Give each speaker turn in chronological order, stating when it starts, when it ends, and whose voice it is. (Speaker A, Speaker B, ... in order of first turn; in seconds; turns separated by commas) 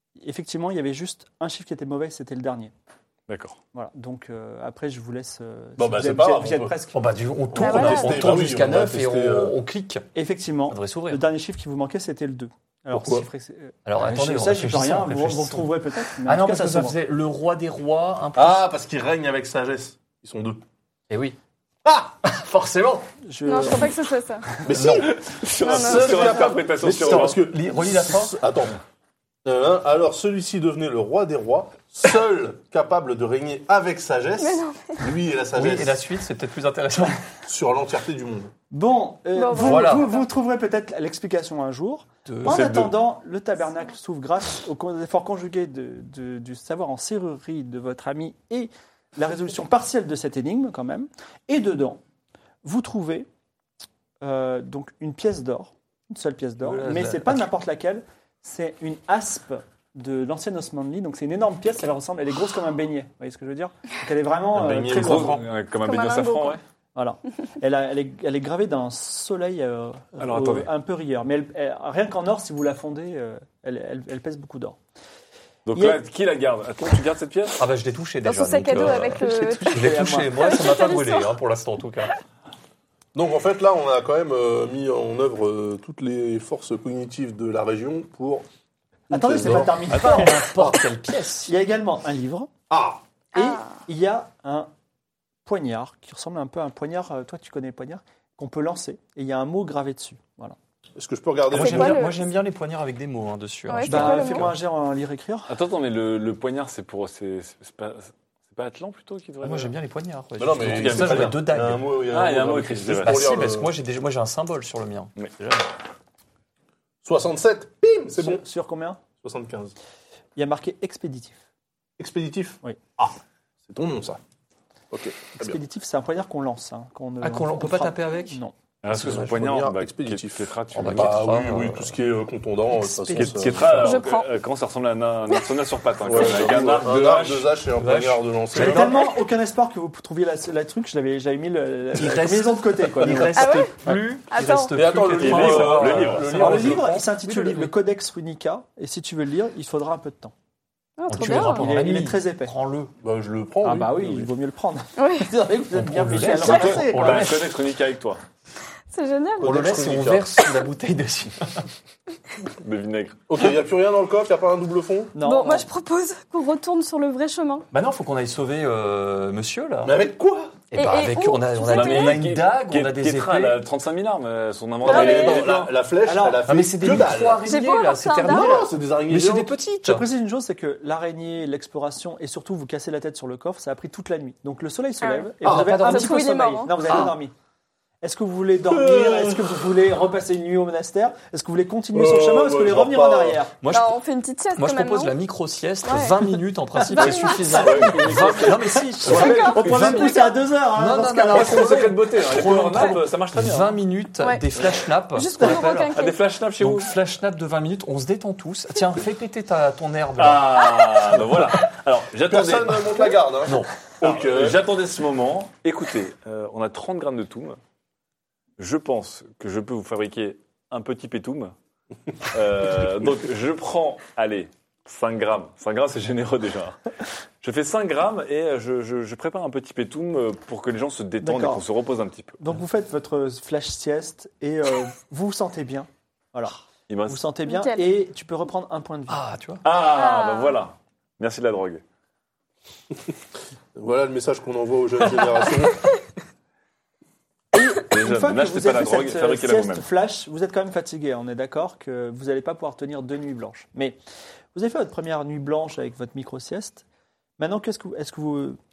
Speaker A: 0.2-2.7, Speaker B: 3.3-3.6, Speaker A: 3.7-7.0, Speaker C: 5.8-6.8, Speaker D: 6.9-10.1, Speaker C: 7.5-9.6, Speaker E: 7.6-8.3, Speaker A: 10.1-17.0, Speaker D: 10.7-11.2, Speaker C: 12.9-13.3, Speaker D: 13.9-18.6, Speaker C: 18.4-20.6, Speaker D: 21.1-21.4, Speaker C: 21.9-22.1, Speaker D: 22.2-23.1, Speaker A: 23.2-24.1, Speaker E: 23.4-24.5, Speaker C: 24.6-28.8, Speaker B: 24.8-27.4, Speaker E: 25.6-26.7, Speaker D: 26.9-28.4, Speaker C: 29.4-36.0, Speaker E: 34.4-35.0, Speaker D: 35.5-37.2, Speaker C: 37.5-38.5, Speaker A: 38.7-52.0, Speaker E: 39.4-40.2, Speaker D: 39.5-40.1, Speaker D: 42.3-42.6, Speaker B: 42.5-42.9, Speaker A: 52.6-53.3, Speaker A: 54.2-65.4, Speaker D: 56.6-57.5, Speaker C: 64.5-65.5, Speaker B: 64.6-66.6, Speaker E: 65.8-66.6, Speaker A: 67.0-74.8, Speaker B: 70.2-70.7, Speaker B: 75.7-77.6, Speaker D: 77.6-82.1, Speaker E: 78.2-81.3, Speaker A: 79.0-80.6, Speaker C: 83.2-88.5, Speaker C: 89.1-90.0, Speaker A: 89.1-90.5, Speaker D: 89.4-91.5, Speaker A: 91.5-92.5, Speaker C: 92.7-93.0, Speaker E: 93.3-93.8, Speaker A: 93.3-94.7, Speaker A: 95.5-100.6, Speaker C: 101.0-102.0, Speaker D: 101.5-104.5, Speaker E: 101.5-102.3, Speaker E: 103.7-104.6, Speaker A: 103.9-105.5, Speaker B: 105.5-109.7, Speaker D: 109.4-111.8, Speaker C: 110.4-113.7, Speaker B: 110.6-111.4, Speaker B: 112.1-113.3, Speaker D: 113.0-115.7, Speaker C: 117.0-118.4, Speaker A: 118.1-119.0, Speaker C: 119.2-119.8, Speaker A: 120.4-121.4, Speaker C: 122.0-123.2, Speaker C: 123.7-124.2, Speaker C: 124.9-125.6, Speaker A: 125.4-128.5, Speaker D: 127.2-129.4, Speaker B: 128.8-131.5, Speaker C: 128.9-134.0, Speaker D: 130.7-132.0, Speaker D: 132.7-133.9, Speaker B: 133.1-137.5, Speaker E: 133.8-134.3, Speaker C: 136.0-139.1, Speaker D: 137.8-138.9, Speaker A: 138.5-143.5, Speaker D: 141.9-147.8, Speaker C: 143.0-143.3, Speaker E: 143.3-144.8, Speaker C: 144.7-146.9, Speaker B: 145.2-146.7, Speaker A: 146.3-150.3, Speaker E: 151.0-151.8, Speaker D: 151.1-152.9, Speaker A: 151.2-152.5, Speaker C: 153.0-154.3, Speaker A: 153.6-157.4, Speaker E: 155.0-155.3, Speaker D: 155.7-157.6, Speaker B: 156.2-158.2, Speaker E: 158.9-159.6, Speaker C: 159.4-160.3, Speaker D: 159.4-161.7, Speaker B: 162.6-163.2, Speaker C: 163.3-165.2, Speaker A: 165.2-165.7, Speaker E: 165.2-167.7, Speaker D: 167.7-170.0, Speaker C: 169.8-170.6, Speaker D: 170.7-173.6, Speaker E: 170.7-172.2, Speaker B: 171.7-175.8, Speaker C: 174.8-177.5, Speaker E: 174.8-175.6, Speaker A: 176.1-176.5, Speaker D: 176.5-180.1, Speaker E: 177.4-178.6, Speaker C: 178.3-179.6, Speaker A: 179.8-187.3, Speaker E: 185.0-186.9, Speaker C: 185.4-185.8, Speaker D: 185.4-186.2, Speaker D: 186.9-187.2, Speaker A: 188.0-193.6, Speaker C: 188.7-189.7, Speaker C: 191.9-193.4, Speaker D: 193.6-194.0, Speaker E: 193.7-195.2, Speaker D: 194.6-205.9, Speaker E: 195.8-196.3, Speaker A: 196.8-201.8, Speaker E: 196.8-197.7, Speaker B: 197.5-198.6, Speaker E: 199.0-200.4, Speaker B: 201.3-203.8, Speaker E: 204.2-204.5, Speaker E: 205.1-206.2, Speaker B: 205.9-206.9, Speaker D: 206.6-210.8, Speaker B: 210.2-213.1, Speaker C: 212.3-214.6, Speaker D: 213.4-213.7, Speaker B: 214.0-217.6, Speaker B: 218.6-221.5, Speaker B: 222.3-226.8, Speaker B: 227.4-232.4, Speaker A: 231.2-231.6, Speaker A: 232.4-236.6, Speaker B: 236.9-237.2, Speaker A: 237.1-239.3, Speaker E: 237.5-237.8, Speaker D: 239.1-239.6, Speaker B: 239.6-241.8, Speaker E: 239.8-240.6, Speaker C: 243.8-245.9, Speaker A: 247.5-254.0, Speaker B: 247.9-249.9, Speaker A: 254.5-256.8, Speaker A: 257.4-258.6